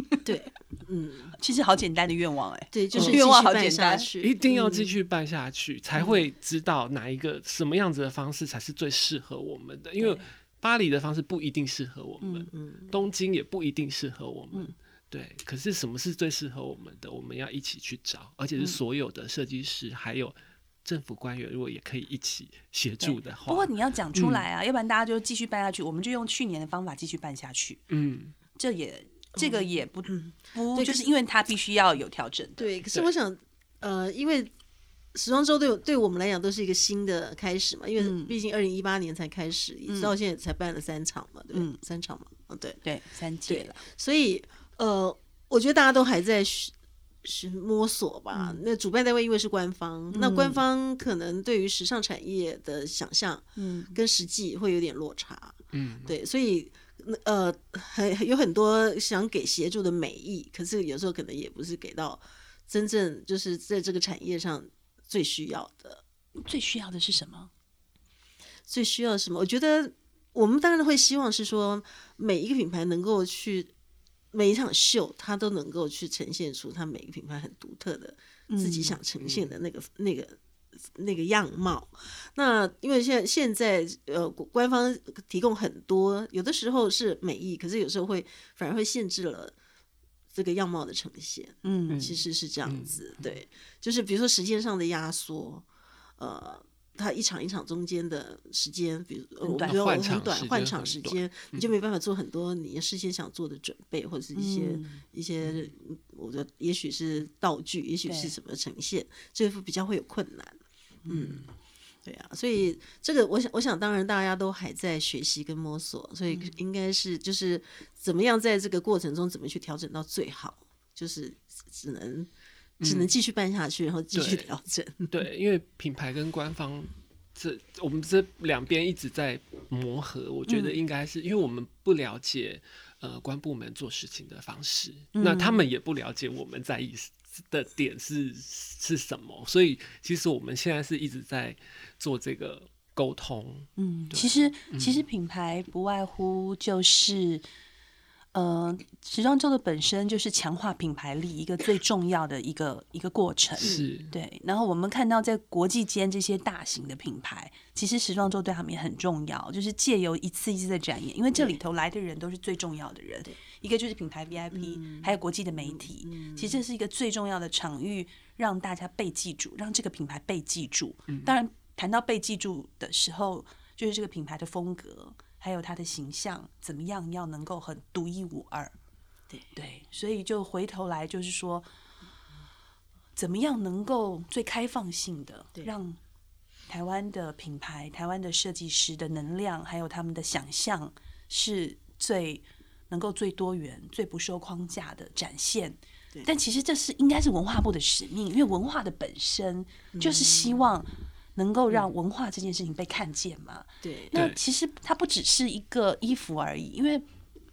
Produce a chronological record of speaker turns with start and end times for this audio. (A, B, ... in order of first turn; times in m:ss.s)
0:00.2-0:01.4 A
0:01.4-0:04.1 B
0:02.7-0:05.0 A
0:04.2-0:24.5 C
0:10.0-0:10.3 B
0:12.2-0:12.5 B
0:12.5-0:13.0 A
0:23.0-0:27.8 B
0:27.9-0:28.4 C
0:28.6-0:32.7 B
0:29.4-0:31.1 A
0:32.6-0:34.5 A
0:35.2-0:42.8 A
0:38.0-0:38.4 B
0:39.9-0:40.2 B
0:41.5-0:41.8 B
0:42.8-0:43.8 B
0:43.5-0:46.7 A
0:47.2-1:06.0 A
0:48.3-0:48.6 B
0:50.1-0:50.6 B
0:53.6-0:54.0 B
0:55.7-0:56.2 C
1:06.4-1:07.5 B
1:08.7-1:13.7 A
1:14.3-1:20.4 A
1:18.5-1:19.0 B
1:19.2-1:19.6 C
1:21.0-1:29.6 A
1:30.3-1:35.7 A
1:31.6-1:32.1 B
1:31.9-1:33.3 C
1:36.2-1:50.6 A
1:39.4-1:39.8 B
1:39.6-1:41.7 C
1:44.4-1:45.0 B
1:48.1-1:48.3 B
1:51.0-1:51.5 B
1:51.1-1:51.5 A
1:52.0-2:05.1 A
2:02.8-2:03.1 C
2:04.1-2:04.5 C
2:05.1-2:25.0 C
2:10.5-2:10.8 B
2:15.2-2:15.7 B
2:23.8-2:27.4 B
2:28.3-2:58.7 B
2:33.6-2:34.1 C
2:44.5-2:46.6 A
2:51.1-2:51.3 C
2:59.5-3:01.7 B
3:03.2-3:06.0 B
3:06.7-3:27.0 B
3:19.9-3:20.7 A
3:23.8-3:24.2 A